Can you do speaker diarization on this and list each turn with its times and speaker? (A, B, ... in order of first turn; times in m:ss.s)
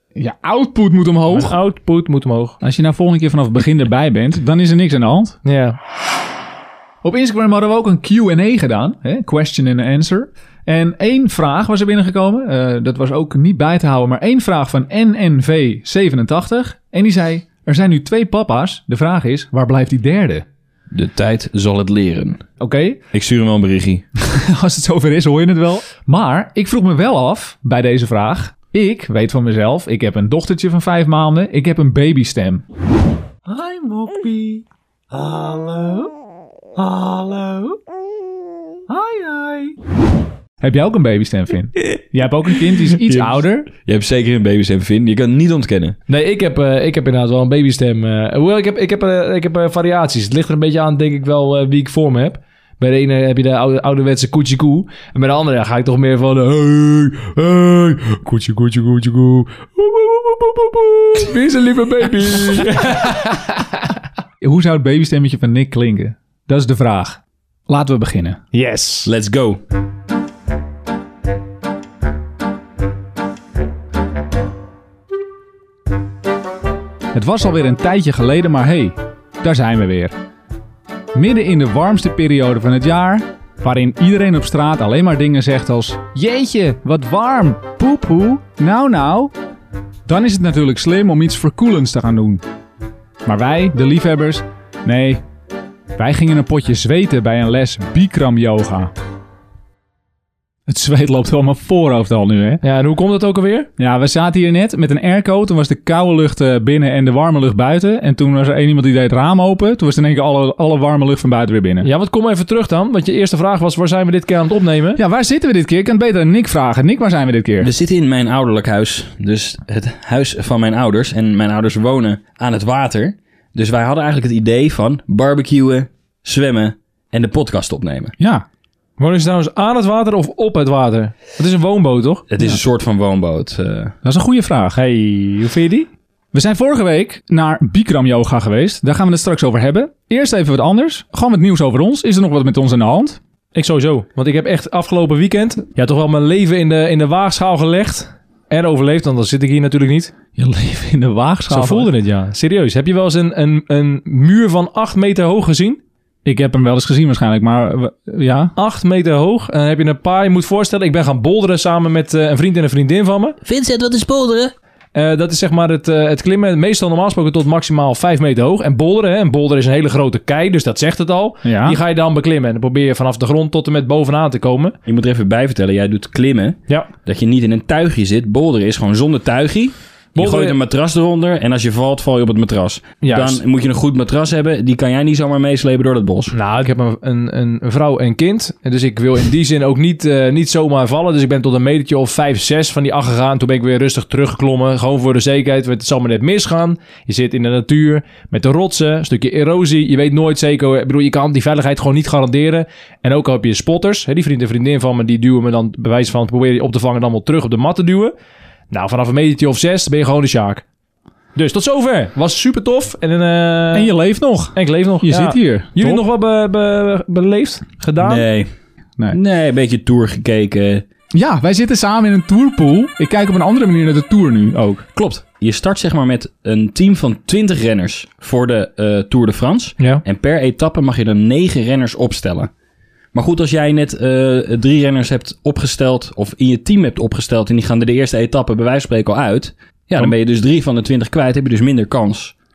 0:00.2-0:01.5 A
0:01.3-0:02.6 B
0:02.6-0:05.4 A
0:05.4-0:05.8 B
0:07.0-0:20.4 A
0:20.9-0:22.4 C
0:22.6-0:23.0 A
0:23.1-0:24.0 C
0:24.2-0:32.6 A
0:33.5-0:36.1 A
0:36.8-0:37.8 A
0:38.9-0:39.8 A
0:40.6-0:43.7 A
0:43.0-0:46.0 C
0:46.1-1:03.6 B
1:04.4-1:08.4 A
1:08.5-1:09.1 B
1:09.0-1:09.6 C
1:17.1-1:20.2 A
1:21.1-1:29.3 A
1:30.1-1:32.4 A
1:33.2-1:35.2 A
1:36.0-1:38.9 A
1:40.7-1:42.6 A
1:42.6-1:43.7 B
1:43.8-1:51.9 A
1:51.8-1:55.0 B
1:55.0-1:57.7 A
1:57.6-2:08.1 C
2:08.2-2:08.4 A
2:09.0-2:12.2 B
2:12.3-2:13.9 C
2:14.0-2:14.8 A
2:14.8-2:15.9 B
2:16.3-2:23.2 A
2:23.5-2:30.1 B
2:30.4-2:31.9 A
2:31.5-2:35.8 B
2:36.2-2:38.5 A
2:38.6-2:43.4 B
2:43.4-2:44.5 C
2:44.9-2:54.8 B
2:51.4-2:51.8 A
2:54.8-3:06.3 C
3:00.2-3:00.6 B
3:03.0-3:03.4 B
3:06.3-3:28.1 B
3:28.7-3:30.6 B
3:31.4-3:33.9 B
3:33.7-3:36.0 A
3:34.5-3:38.2 B
3:38.0-3:38.5 C
3:39.1-3:40.8 C
3:41.1-3:45.0 A
3:45.2-3:52.5 C
3:53.1-4:02.3 C